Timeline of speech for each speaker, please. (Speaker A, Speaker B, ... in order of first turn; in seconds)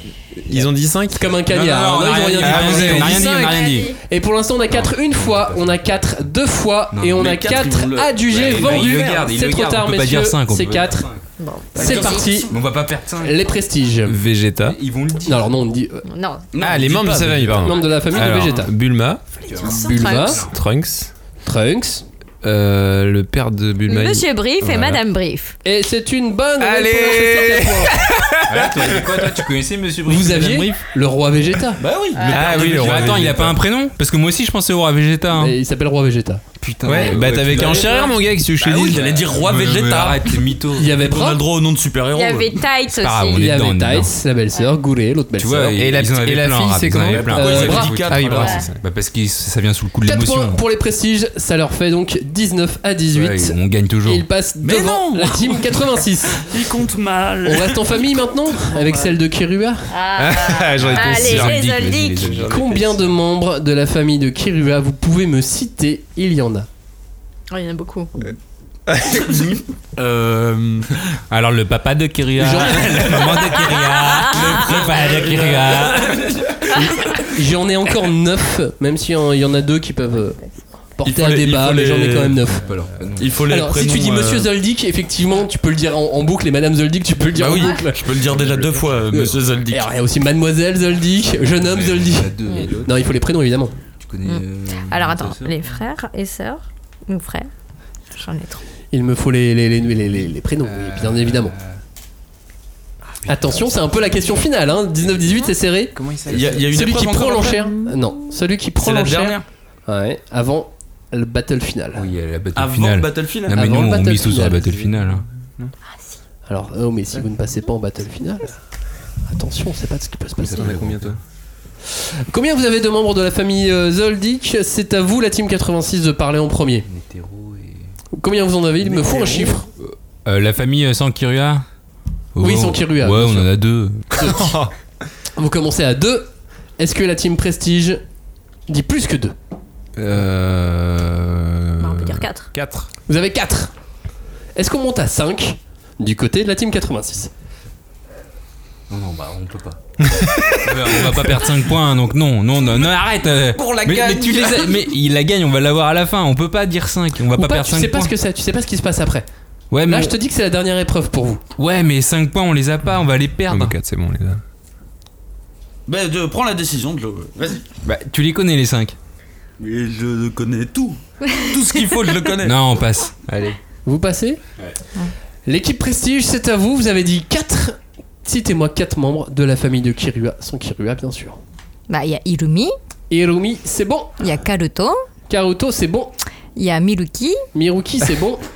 Speaker A: 0.4-1.4, 2.4-3.5, 14.1-14.8, 16.6-19.2, 20.5-21.1, 22.4-25.0, 26.6-29.4, 32.3-33.5, 36.8-39.0, 45.7-48.8, 60.2-63.1, 106.0-106.6, 120.5-121.2, 134.4-134.7, 140.0-142.9, 150.0-151.4, 163.5-164.4
Speaker B: 1.1-11.1, 11.8-12.5, 13.2-14.2, 15.3-16.1, 17.6-18.7, 19.6-20.4, 21.4-22.0, 25.6-27.9, 30.1-31.8, 35.4-36.4, 40.8-41.4, 43.3-45.8, 47.3-48.4, 50.0-56.5, 57.5-59.9, 62.5-66.7, 72.4-73.2, 76.7-80.4, 81.0-82.6, 83.5-88.2, 89.1-93.7, 98.9-101.5, 103.3-106.0, 106.7-112.1, 113.5-114.7, 116.5-118.6, 119.3-120.8, 122.0-126.9, 128.2-129.7, 132.4-133.5, 135.4-138.0, 138.7-139.3, 143.1-143.7, 144.6-147.3, 157.4-159.3, 159.8-161.4, 173.8-174.4, 175.5-181.4, 183.1-184.2, 185.3-186.1, 187.5-188.4
Speaker C: 1.5-3.9, 4.7-6.0, 6.9-7.3, 8.3-11.2, 12.5-13.4, 14.7-15.5, 19.5-20.5, 28.5-30.9, 32.4-35.6, 36.6-38.1, 38.7-41.0, 42.9-44.1, 45.4-50.6, 53.1-54.3, 60.8-62.5, 71.3-76.4, 82.5-83.3, 88.3-89.3, 91.4-93.1, 94.0-95.6, 100.7-101.8, 103.2-104.3, 106.0-106.5, 111.9-115.2, 120.4-121.2, 126.9-127.8, 128.9-131.6, 132.4-134.4, 148.9-149.8, 150.6-158.1, 159.7-160.2, 161.6-163.8, 167.8-169.0, 172.4-173.6
Speaker D: 3.4-4.0, 11.4-12.4, 16.1-16.4, 19.6-20.4, 23.9-25.6, 32.1-32.7, 42.1-43.5, 48.3-48.7, 58.8-59.1, 59.9-62.3, 67.5-68.1, 73.9-74.6, 92.5-92.7, 94.2-97.5, 98.1-98.6, 141.8-142.5, 171.2-171.6, 181.9-182.7, 184.2-185.0, 186.6-187.4
Speaker E: 7.2-9.2, 11.8-12.6, 16.5-17.8, 31.8-33.6, 36.9-38.1, 38.6-42.6, 47.1-48.6, 54.6-58.1, 70.0-71.1, 72.5-77.2, 81.0-82.5, 83.2-84.5, 87.3-89.9, 106.3-107.7, 108.8-109.5, 112.5-113.5, 153.6-154.8, 165.9-167.7, 169.6-172.6